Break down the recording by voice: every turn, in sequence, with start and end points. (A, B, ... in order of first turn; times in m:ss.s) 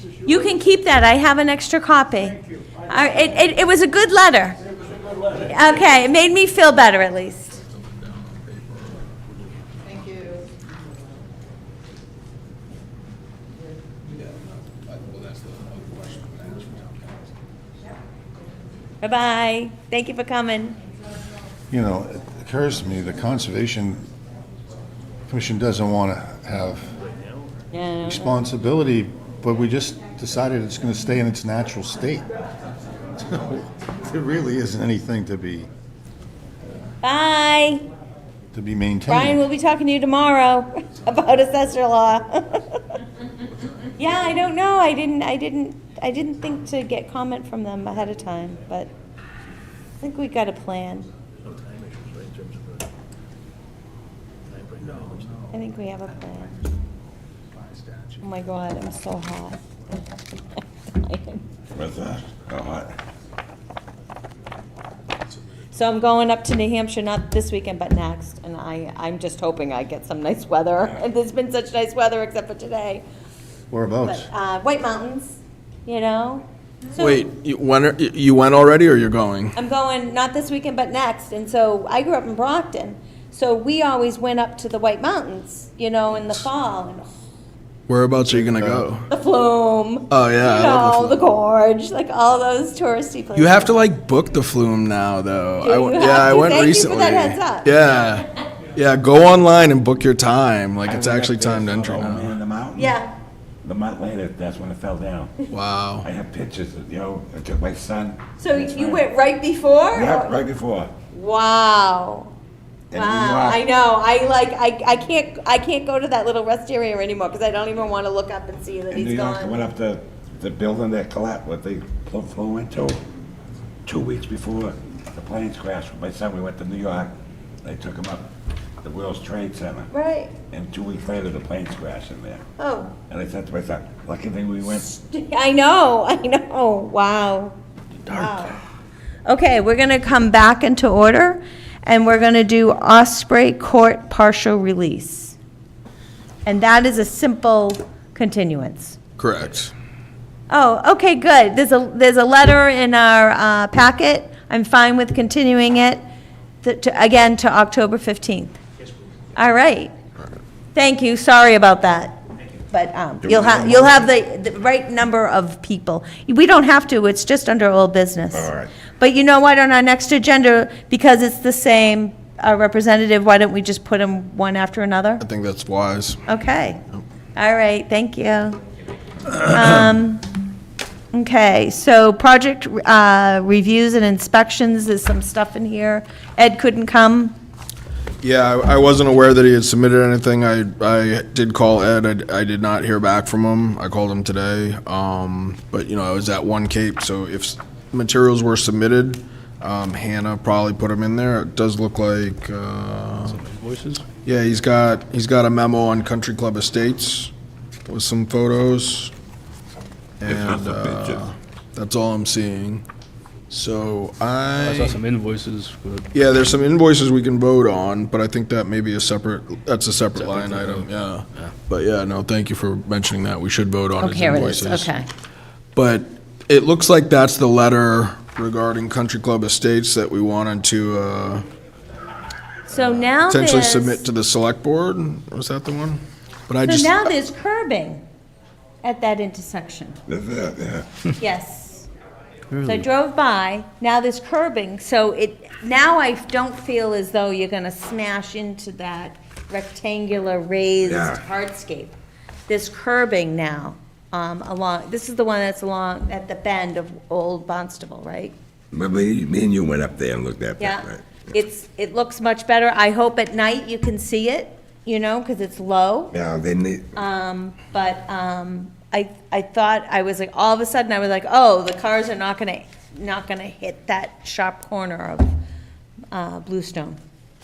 0:00.2-0:04.6 A
0:05.4-0:07.6 A
0:07.7-0:09.0 B
0:14.9-0:17.1 B
0:19.0-0:20.8 A
0:21.7-0:24.1 C
0:25.3-0:26.9 C
0:27.7-0:28.3 A
0:28.0-0:32.3 C
0:33.2-0:35.7 C
0:37.0-0:37.8 A
0:38.5-0:39.4 C
0:39.1-0:42.8 A
0:44.0-0:48.9 A
0:50.0-0:51.1 A
0:55.5-0:56.5 A
0:58.2-0:59.6 A
1:00.9-1:01.4 A
1:01.7-1:02.9 D
1:05.7-1:13.0 A
1:13.7-1:14.3 C
1:14.0-1:17.2 A
1:17.0-1:19.6 B
1:19.6-1:27.1 A
1:27.9-1:29.1 B
1:28.5-1:28.8 C
1:29.1-1:33.8 A
1:30.1-1:31.2 B
1:33.3-1:42.4 B
1:35.6-1:37.7 A
1:40.8-1:43.0 D
1:42.8-1:43.1 A
1:43.6-1:45.3 D
1:45.5-1:46.1 B
1:46.0-1:49.0 D
1:48.4-1:50.4 A
1:49.9-1:50.9 D
1:51.1-1:52.3 A
1:52.9-1:53.6 D
1:52.9-1:59.6 A
1:58.9-2:03.0 D
2:03.8-2:09.9 D
2:09.9-2:10.3 A
2:10.5-2:12.4 D
2:12.6-2:12.9 A
2:13.1-2:14.9 D
2:14.7-2:17.6 A
2:18.1-2:18.6 A
2:19.3-2:25.4 A
2:26.4-2:29.0 A
2:29.2-2:29.7 B
2:30.5-2:36.0 A
2:36.6-2:38.6 A
2:39.4-2:39.9 A
2:40.8-2:55.2 A
2:43.2-2:44.1 D
2:48.3-2:48.7 D
2:55.2-2:56.2 B
2:56.3-2:56.8 A
2:57.4-2:58.6 A
2:59.5-3:00.2 A
3:01.1-3:07.4 A
3:08.2-3:23.4 B
3:23.3-3:24.1 E
3:24.2-3:27.3 B
3:27.9-3:29.1 B
3:30.2-3:32.8 B
3:30.2-3:31.2 D
3:33.5-3:35.0 B
3:34.6-3:36.1 E
3:36.1-3:44.9 B
3:40.2-3:41.5 E
3:44.0-3:45.1 A
3:45.8-3:51.4 B
3:52.7-3:54.0 A
3:52.8-3:57.0 B
3:56.6-3:58.0 A
3:58.8-4:00.0 A
4:00.1-4:00.9 D
4:01.2-4:01.9 A
4:02.5-4:02.8 E
4:02.6-4:11.9 A
4:10.8-4:11.2 D
4:12.5-4:18.4 A
4:18.7-4:21.2 D
4:20.6-4:26.1 A
4:26.1-4:27.0 D
4:27.0-4:35.4 A
4:36.1-4:37.0 A